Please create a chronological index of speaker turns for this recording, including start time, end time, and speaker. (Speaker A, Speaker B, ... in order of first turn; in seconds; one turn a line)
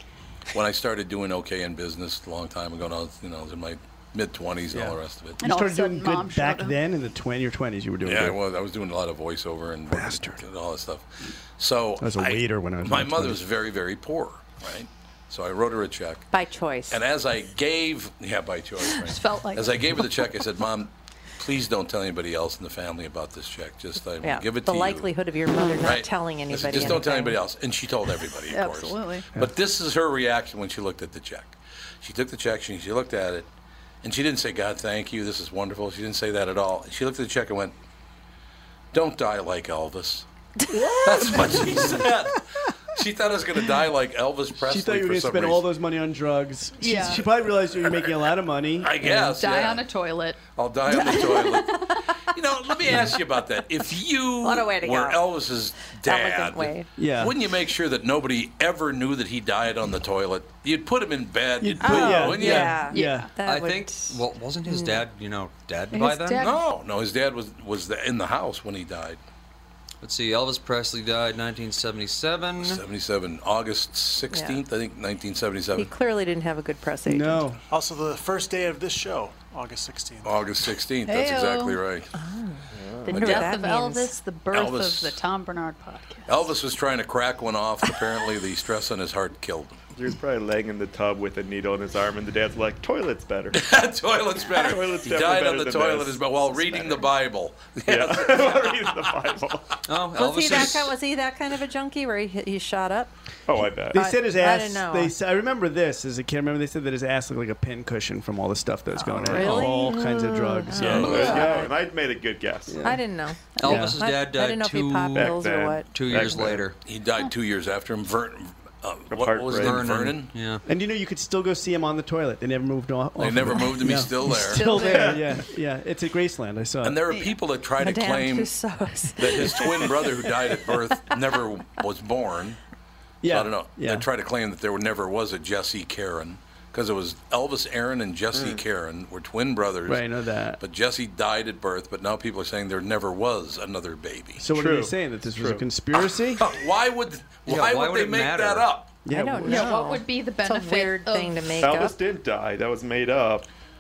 Speaker A: 0.5-5.4
Speaker B: 4.7-8.4
Speaker C: 5.4-6.8
Speaker A: 8.1-16.3
Speaker B: 9.9-10.4
Speaker B: 12.0-13.4
Speaker D: 16.3-17.0
Speaker A: 16.9-25.1
Speaker C: 18.9-19.7
Speaker D: 24.2-27.4
Speaker A: 25.8-33.5
Speaker C: 28.5-29.3
Speaker A: 34.0-37.7
Speaker A: 38.9-45.6
Speaker B: 40.7-42.1
Speaker B: 44.6-49.4
Speaker C: 46.8-47.2
Speaker A: 47.8-48.2
Speaker A: 48.8-49.8
Speaker C: 49.4-51.7
Speaker A: 50.5-51.8
Speaker A: 52.3-62.8
Speaker D: 54.4-55.3
Speaker D: 56.0-56.9
Speaker B: 57.0-57.4
Speaker B: 61.6-63.3
Speaker D: 61.8-65.0
Speaker C: 62.9-63.3
Speaker E: 63.4-66.4
Speaker C: 65.9-66.6
Speaker A: 66.3-69.2
Speaker E: 70.0-72.8
Speaker A: 72.6-75.9
Speaker D: 74.3-74.6
Speaker D: 75.7-77.5
Speaker B: 77.1-77.6
Speaker F: 77.7-80.4
Speaker A: 80.3-82.1
Speaker C: 81.1-81.8
Speaker D: 82.1-84.1
Speaker G: 82.8-83.1
Speaker C: 83.1-86.5
Speaker A: 83.1-83.5
Speaker A: 84.5-85.2
Speaker A: 86.3-89.8
Speaker G: 90.0-93.6
Speaker A: 93.5-99.1
Speaker G: 94.6-97.0
Speaker G: 97.9-99.7
Speaker E: 99.9-100.9
Speaker D: 100.2-103.1
Speaker G: 103.5-104.0
Speaker D: 103.9-105.1
Speaker B: 103.9-111.7
Speaker D: 109.2-111.7
Speaker A: 110.8-111.7
Speaker G: 110.9-112.8
Speaker B: 112.7-113.0
Speaker D: 112.8-115.9
Speaker E: 113.6-116.8
Speaker B: 113.6-114.0
Speaker G: 115.2-116.7
Speaker A: 116.8-120.4
Speaker G: 119.1-119.9
Speaker E: 119.5-120.6
Speaker B: 120.7-127.0
Speaker A: 123.2-125.0
Speaker C: 124.4-125.2
Speaker G: 124.8-125.2
Speaker A: 126.8-128.5
Speaker C: 127.1-127.3
Speaker D: 127.8-130.2
Speaker A: 129.2-132.6
Speaker B: 133.2-134.1
Speaker A: 133.2-144.6
Speaker B: 139.9-140.6
Speaker B: 144.4-146.4
Speaker G: 144.6-145.6
Speaker A: 146.4-149.0
Speaker E: 147.5-148.7
Speaker B: 149.1-149.8
Speaker D: 149.1-151.9
Speaker C: 149.4-151.5
Speaker G: 151.5-153.4